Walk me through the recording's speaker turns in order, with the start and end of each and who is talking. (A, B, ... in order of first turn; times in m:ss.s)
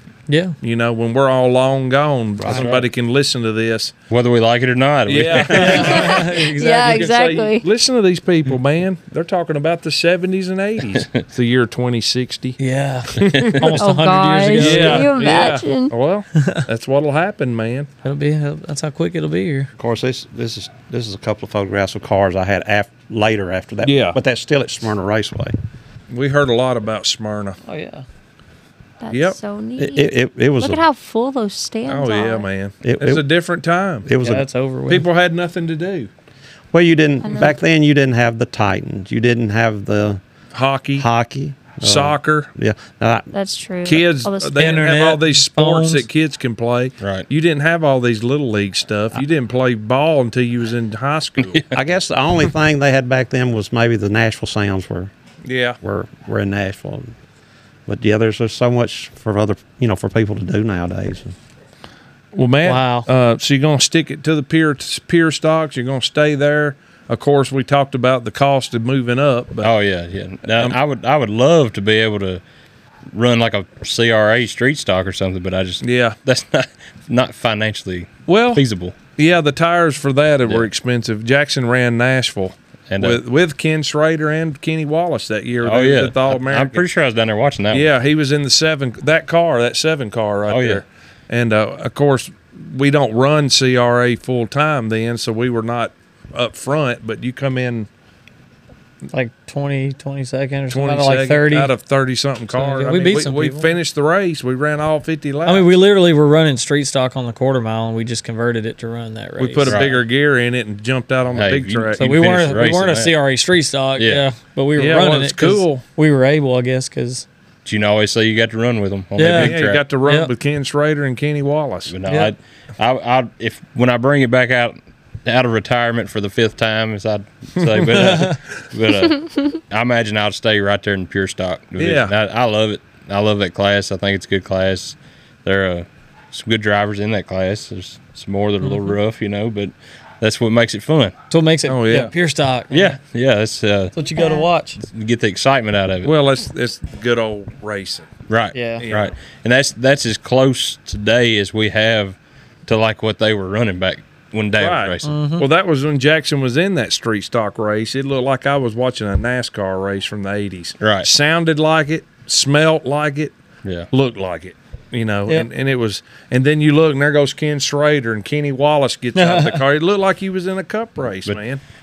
0:00.3-0:00.6 A
0:00.6-0:03.9 B
0:02.4-0:02.7 C
0:02.5-0:02.9 D
0:04.1-0:06.1 D
0:05.1-0:12.6 B
0:05.6-0:07.0 A
0:06.2-0:07.6 E
0:12.6-0:15.3 A
0:13.2-0:13.6 B
0:13.2-0:13.7 D
0:13.8-0:15.9 E
0:14.6-0:17.9 B
0:16.4-0:16.6 A
0:18.0-0:19.7 A
0:19.8-0:25.5 C
0:23.8-0:24.2 B
0:26.1-0:27.6 B
0:27.6-0:28.0 A
0:29.0-0:32.5 E
0:29.1-0:29.4 B
0:29.8-0:30.8 C
0:31.9-0:34.1 B
0:32.8-0:33.3 C
0:34.0-0:34.5 C
0:34.2-0:35.1 A
0:34.9-0:36.1 B
0:36.7-0:40.2 C
0:37.2-0:37.6 E
0:40.5-0:41.1 B
0:41.0-0:43.3 C
0:41.8-0:42.5 B
0:43.3-0:44.8 E
0:43.8-0:51.6 B
0:44.6-0:46.1 A
0:47.0-0:47.3 D
0:51.7-0:55.1 C
0:55.4-0:55.8 B
0:55.8-0:57.1 C
0:57.9-1:01.4 C
1:02.3-1:09.7 B
1:02.6-1:03.1 A
1:09.6-1:12.4 D
1:13.1-1:19.0 D
1:15.8-1:16.2 B
1:18.3-1:18.6 B
1:19.2-1:26.9 B
1:22.9-1:23.2 D
1:25.6-1:27.9 D
1:27.7-1:37.9 B
1:30.5-1:30.8 D
1:39.1-1:41.7 A
1:40.7-1:45.7 B
1:42.5-1:43.7 A
1:45.4-1:49.8 A
1:49.4-1:52.0 B
1:49.7-1:50.0 D
1:51.4-1:53.2 D
1:52.0-1:57.3 A
1:54.0-1:54.3 D
1:54.8-1:55.8 B
1:57.6-1:59.9 D
1:59.2-2:00.3 A
1:59.3-2:01.9 B
2:01.9-2:21.2 D
2:02.1-2:02.4 A
2:07.6-2:08.4 B
2:08.0-2:08.4 A
2:11.8-2:12.1 B
2:18.6-2:18.9 A
2:21.3-2:23.0 A
2:21.7-2:22.1 B
2:22.7-2:24.0 D
2:23.9-2:24.8 A
2:24.2-2:24.5 E
2:24.8-2:26.1 D
2:26.0-2:28.1 B
2:28.3-2:35.2 D
2:28.5-2:28.8 A
2:28.8-2:29.1 B
2:34.6-2:43.4 B
2:35.0-2:35.5 A
2:40.8-2:41.1 D
2:43.9-2:51.6 B
2:49.2-2:49.6 A